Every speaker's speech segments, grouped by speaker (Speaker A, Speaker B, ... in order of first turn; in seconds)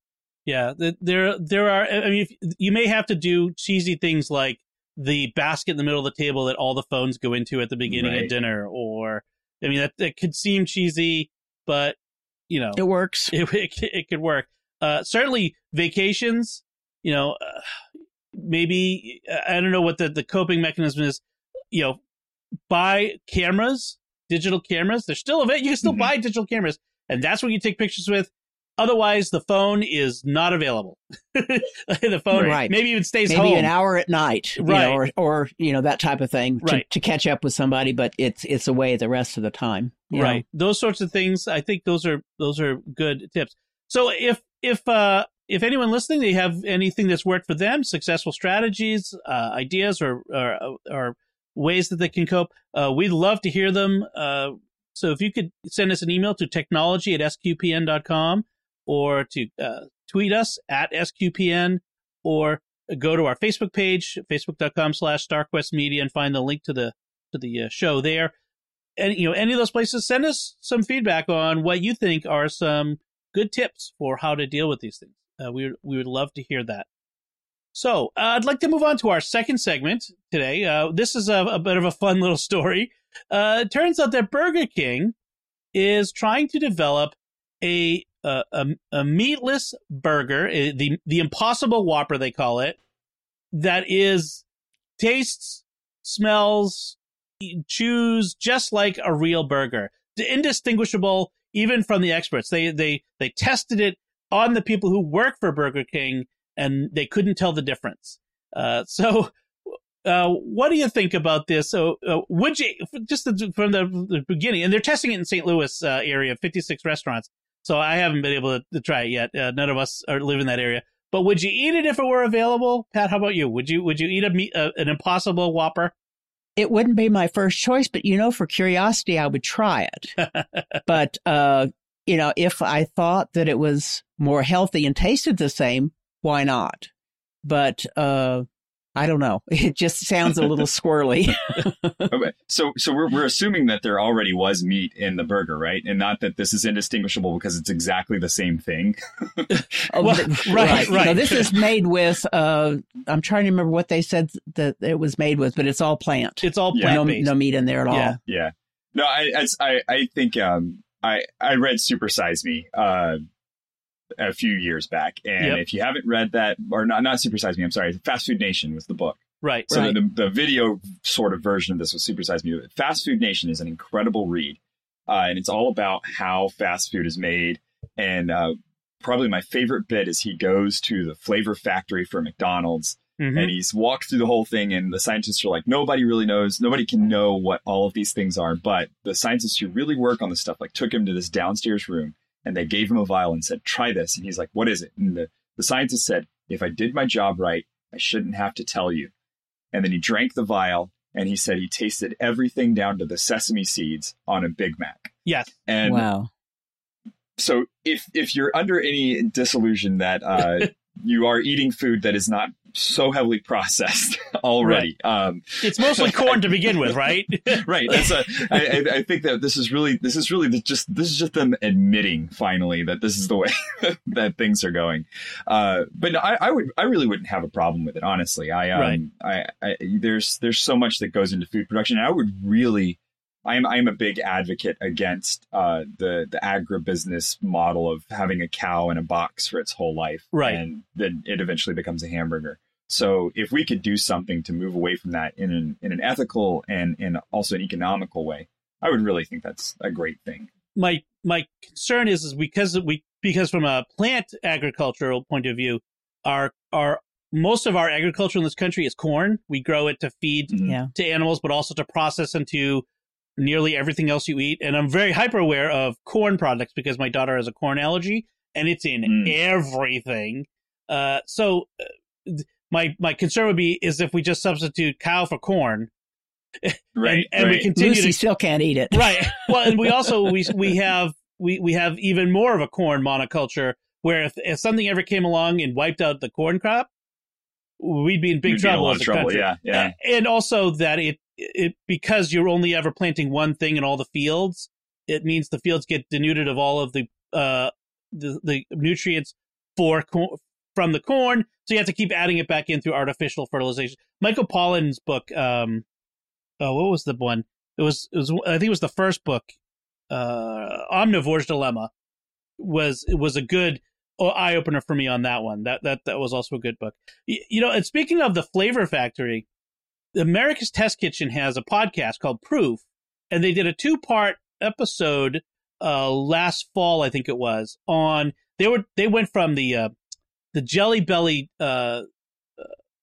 Speaker A: 0.5-12.0, 12.5-17.6, 18.3-22.0, 22.7-33.7, 34.6-35.0, 40.1-68.3, 69.0-76.9, 77.7-85.1, 85.7-92.8, 93.5-94.4, 95.0-109.3, 110.0-125.9, 149.5-151.5, 156.4-157.3, 157.9-158.2, 169.4-170.0, 183.2-183.5, 205.2-205.5, 214.6-214.9, 215.6-218.1, 228.7-229.0, 240.3-240.6, 250.8-262.9, 263.4-271.7, 272.2-275.9, 276.6-278.2, 278.9-286.9, 287.8-305.9, 306.6-309.5, 310.1-311.9, 312.6-319.5, 320.1-329.9, 330.5-332.1
Speaker B: 7.9-8.3, 25.8-26.1, 32.3-32.6, 142.1-151.5, 156.7-157.0, 158.3-163.2, 164.2-199.1, 199.7-205.1, 205.7-206.1, 207.4-250.5, 260.5-260.8, 269.1-269.4, 276.9-277.7, 288.4-289.9
Speaker C: 12.8-13.3, 32.4-40.4, 126.6-130.2, 130.9-136.9, 137.4-142.1, 149.9-158.2, 205.8-206.3, 260.6-260.9, 277.8-279.9